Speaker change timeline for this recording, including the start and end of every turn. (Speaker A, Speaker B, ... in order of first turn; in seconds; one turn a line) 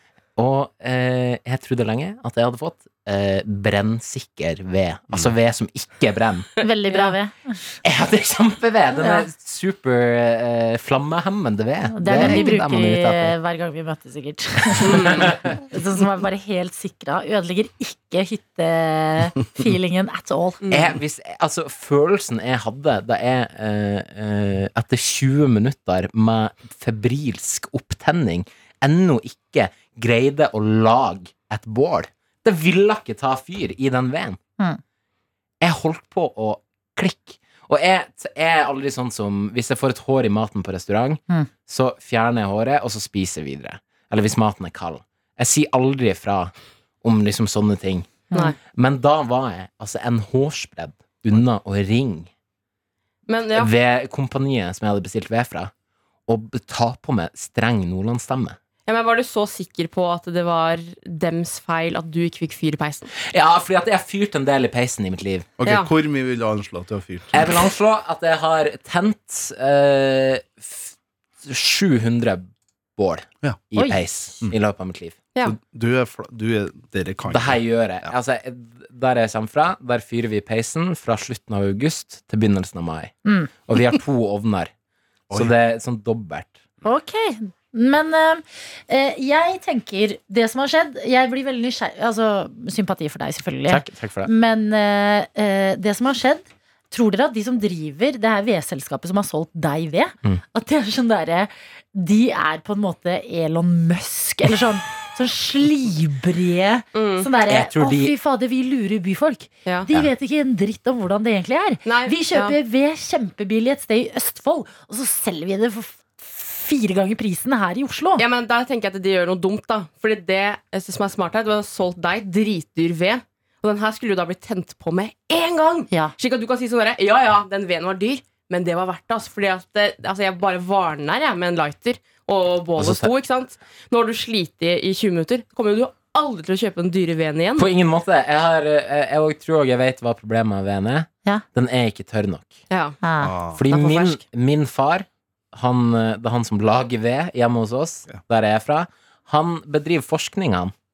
Speaker A: 0.3-6.6
Speaker B: 6.6-7.6
Speaker A: 7.8-13.3
Speaker B: 9.0-9.2
Speaker B: 11.9-20.7
Speaker A: 14.7-15.5
Speaker C: 14.8-15.3
Speaker C: 20.6-21.0
Speaker A: 20.7-34.4
Speaker A: 35.6-52.3
Speaker C: 53.3-53.7
Speaker A: 53.5-55.7
Speaker A: 56.3-58.6
Speaker C: 58.9-63.1
Speaker A: 63.2-65.5
Speaker D: 65.6-67.5
Speaker C: 65.6-65.9
Speaker A: 67.3-75.2
Speaker D: 75.4-78.1
Speaker A: 77.3-84.7
Speaker B: 83.2-83.5
Speaker A: 85.3-86.5
Speaker B: 86.8-118.2
Speaker A: 93.7-94.3
Speaker C: 106.9-107.3
Speaker A: 107.4-108.1
Speaker C: 111.8-112.5
Speaker C: 118.2-137.7
Speaker A: 132.8-133.1
Speaker A: 137.6-142.6
Speaker C: 142.7-143.0
Speaker B: 143.0-143.3
Speaker D: 143.2-143.6
Speaker A: 143.5-150.7
Speaker C: 143.7-144.2